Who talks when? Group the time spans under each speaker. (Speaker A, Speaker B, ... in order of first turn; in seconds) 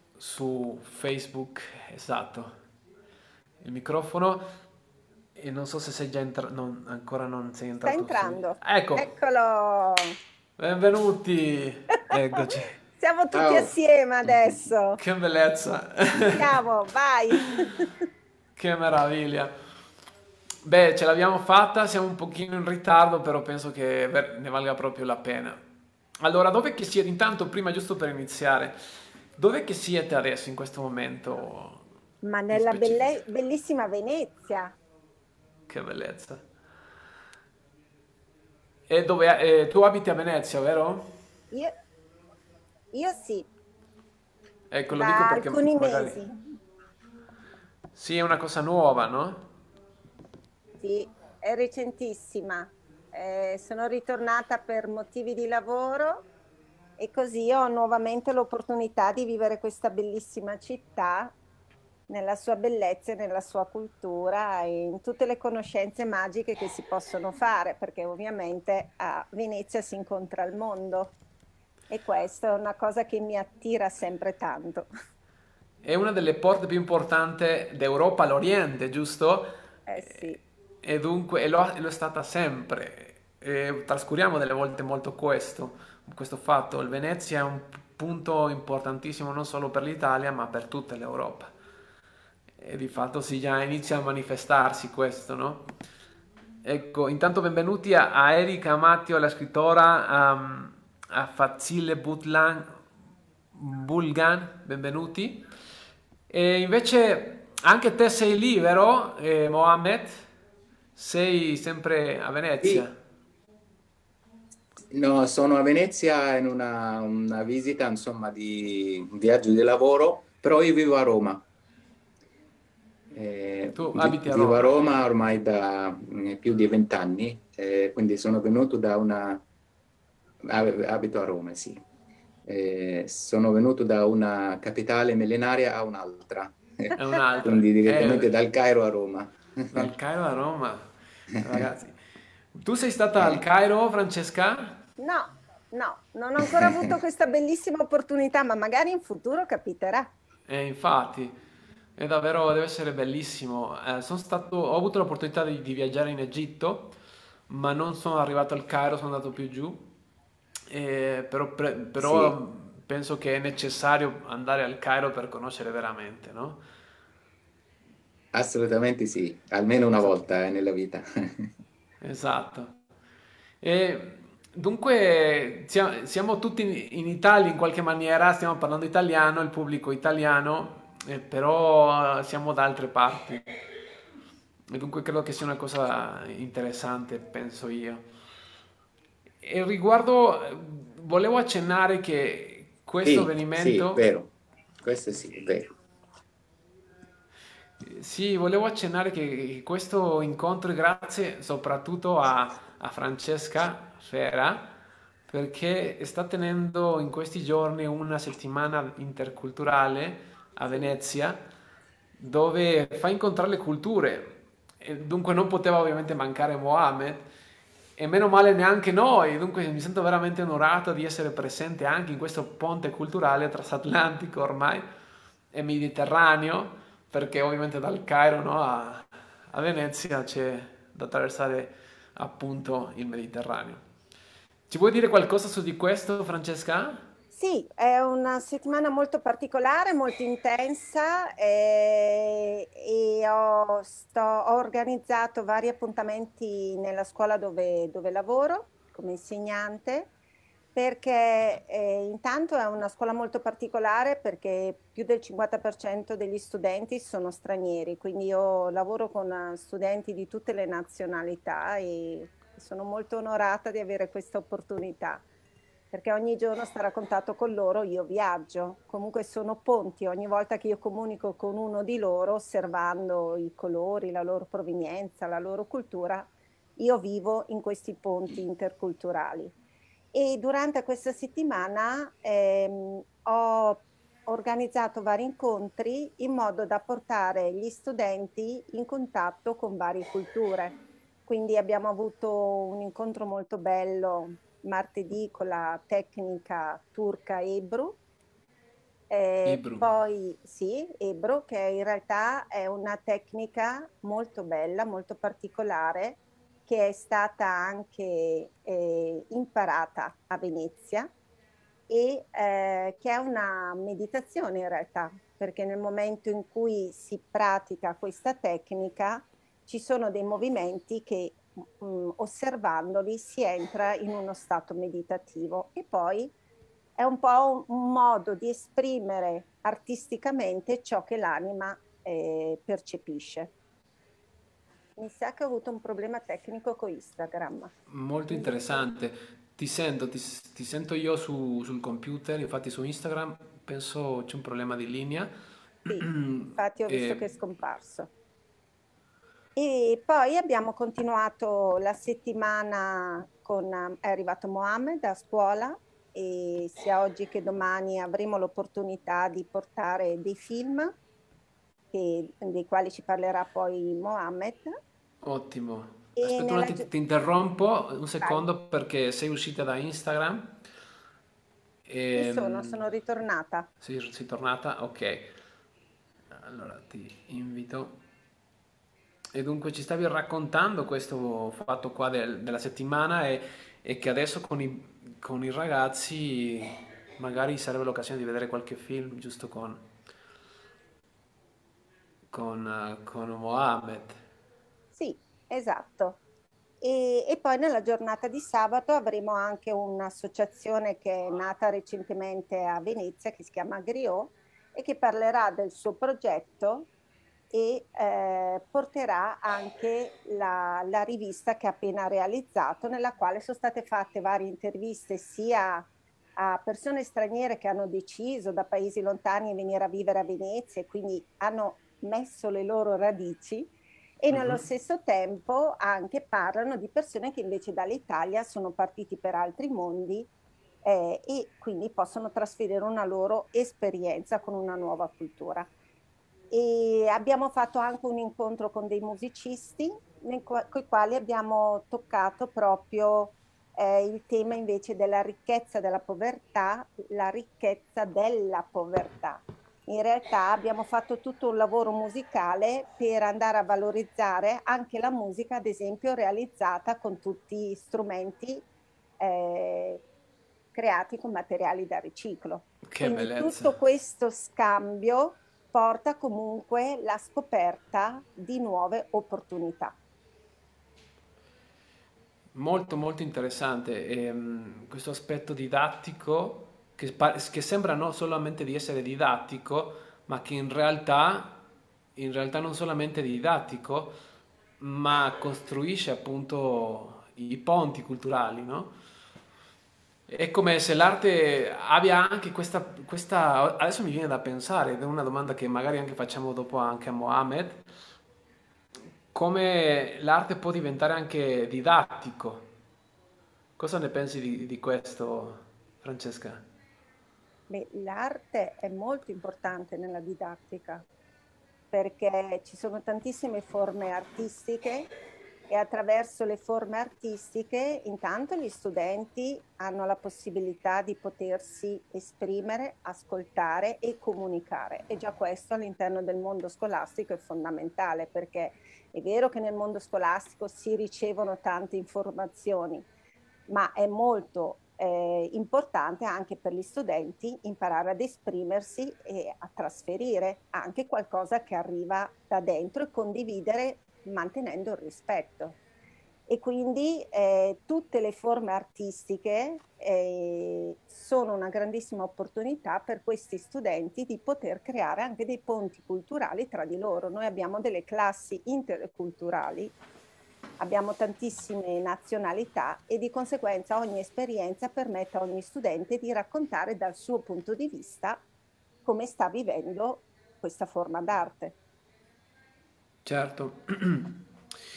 Speaker A: 0.2-2.5, 3.6-4.4, 5.3-9.1, 10.6-12.7, 15.0-16.6, 18.6-19.5, 20.6-25.6, 26.2-28.8, 29.4-31.9, 32.5-33.2, 35.7-36.4, 38.9-41.1, 44.7-46.2, 48.0-49.5, 75.8-79.5, 80.1-91.5, 92.6-95.7, 96.6-102.8, 103.5-105.5, 106.3-110.2, 111.0-112.9, 123.8-124.7, 136.9-138.3, 139.7-141.9, 142.5-144.8, 150.5-151.4, 152.0-156.9, 157.5-159.9, 160.7-166.6, 172.0-172.8, 173.6-183.4, 184.7-188.1, 189.4-194.0, 197.8-204.8, 205.3-211.4, 212.2-217.2, 218.0-224.8, 225.5-233.8, 234.7-237.1, 299.4-299.9, 337.9-345.3, 345.9-347.3, 365.2-370.6, 371.9-372.8, 373.8-375.3, 376.3-378.0, 379.3-389.9, 392.3-394.2, 424.3-424.6, 462.9-463.8, 472.5-484.2, 484.8-488.9, 490.3-497.8, 499.3-502.7, 503.8-506.6, 573.2-574.4
Speaker B: 7.8-10.2, 13.0-15.0, 16.2-17.9, 32.2-34.8, 42.9-43.5, 44.9-46.4, 50.8-56.2, 57.0-61.4, 62.1-71.2, 71.9-74.9, 79.9-80.4, 145.0-150.1, 237.3-250.1, 250.8-265.3, 265.9-279.6, 280.1-290.8, 291.3-298.0, 299.1-311.1, 311.9-326.4, 327.0-333.5, 335.0-337.7, 338.3-338.6, 345.9-348.1, 349.6-361.0, 361.9-364.8, 366.2-366.9, 372.2-373.7, 394.9-396.2, 396.8-406.9, 407.5-430.3, 430.8-435.7, 436.5-458.7, 459.2-460.0, 460.7-470.0, 507.7-511.1, 511.9-515.1, 515.7-533.1, 533.7-545.8, 546.5-560.0, 560.8-568.4, 569.0-571.8
Speaker C: 13.3-13.7, 114.9-121.5, 123.1-129.4, 130.4-131.8, 132.5-139.9, 146.6-146.9, 162.0-162.3, 168.3-171.5, 193.0-195.7